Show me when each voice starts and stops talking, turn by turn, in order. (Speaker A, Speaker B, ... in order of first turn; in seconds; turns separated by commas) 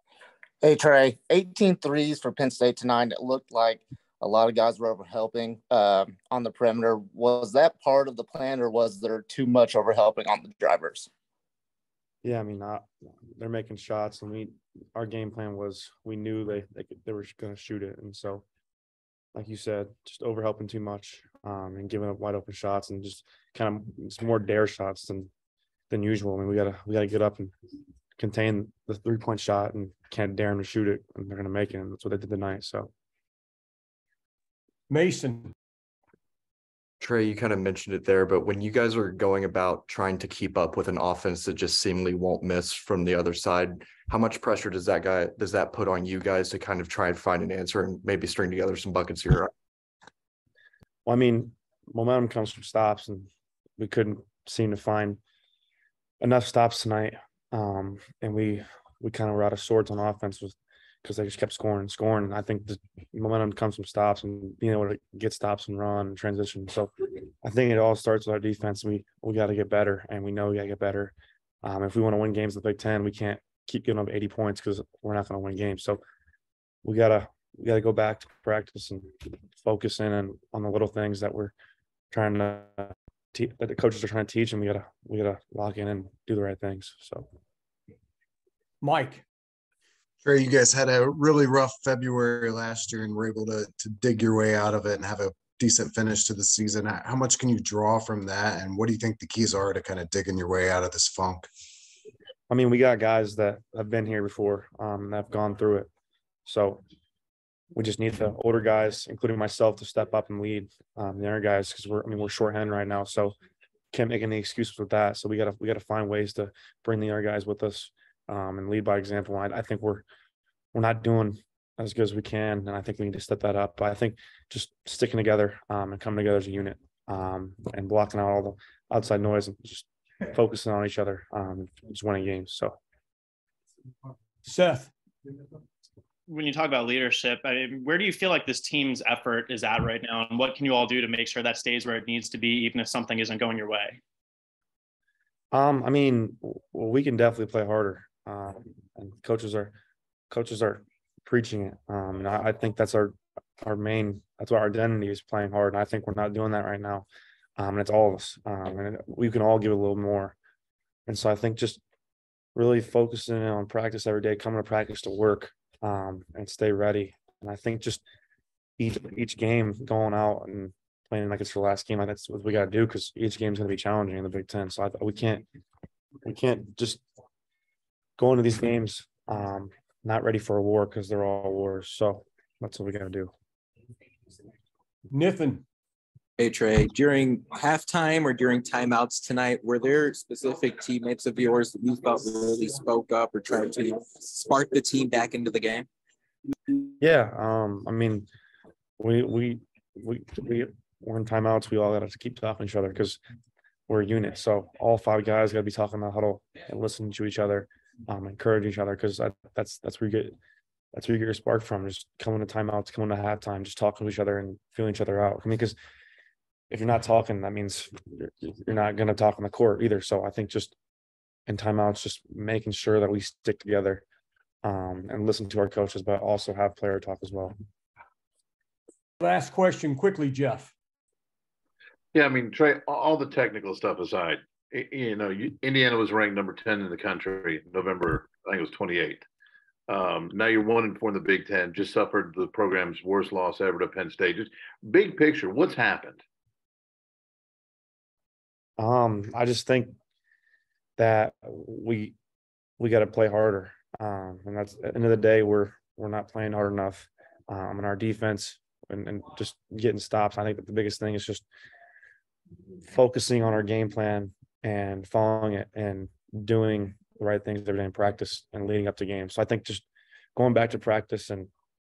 Speaker A: 0.6-11.1, Speaker B: 12.2-18.4, Speaker B: 19.3-25.3, Speaker B: 25.9-27.5, Speaker B: 28.2-32.9, Speaker C: 34.9-35.5, Speaker D: 37.0-49.5, Speaker B: 51.0-55.2, Speaker B: 56.2-66.9, Speaker B: 67.4-76.0, Speaker B: 76.8-81.5, Speaker B: 82.1-87.3, Speaker C: 88.8-89.2, Speaker E: 90.2-101.5, Speaker B: 102.5-105.9, Speaker B: 106.4-106.8, Speaker B: 107.7-113.3, Speaker B: 113.9-120.0, Speaker B: 120.7-132.8, Speaker C: 134.4-134.9, Speaker F: 136.3-144.0, Speaker B: 145.5-149.7, Speaker B: 150.3-157.1, Speaker B: 157.6-160.3, Speaker B: 161.1-161.8, Speaker B: 162.6-168.0, Speaker B: 168.8-175.4, Speaker B: 176.2-177.0, Speaker B: 178.2-183.3, Speaker C: 185.1-185.6, Speaker G: 186.4-195.8, Speaker B: 197.0-198.3, Speaker B: 199.0-203.2, Speaker B: 203.9-210.3, Speaker B: 210.9-215.8, Speaker B: 216.7-220.7, Speaker B: 221.5-224.0, Speaker B: 224.6-227.5, Speaker C: 229.2-230.7, Speaker H: 232.1-239.2, Speaker H: 239.9-246.2, Speaker B: 248.8-249.9, Speaker B: 251.0-252.1, Speaker B: 252.8-261.4, Speaker B: 262.9-269.8, Speaker B: 270.4-271.5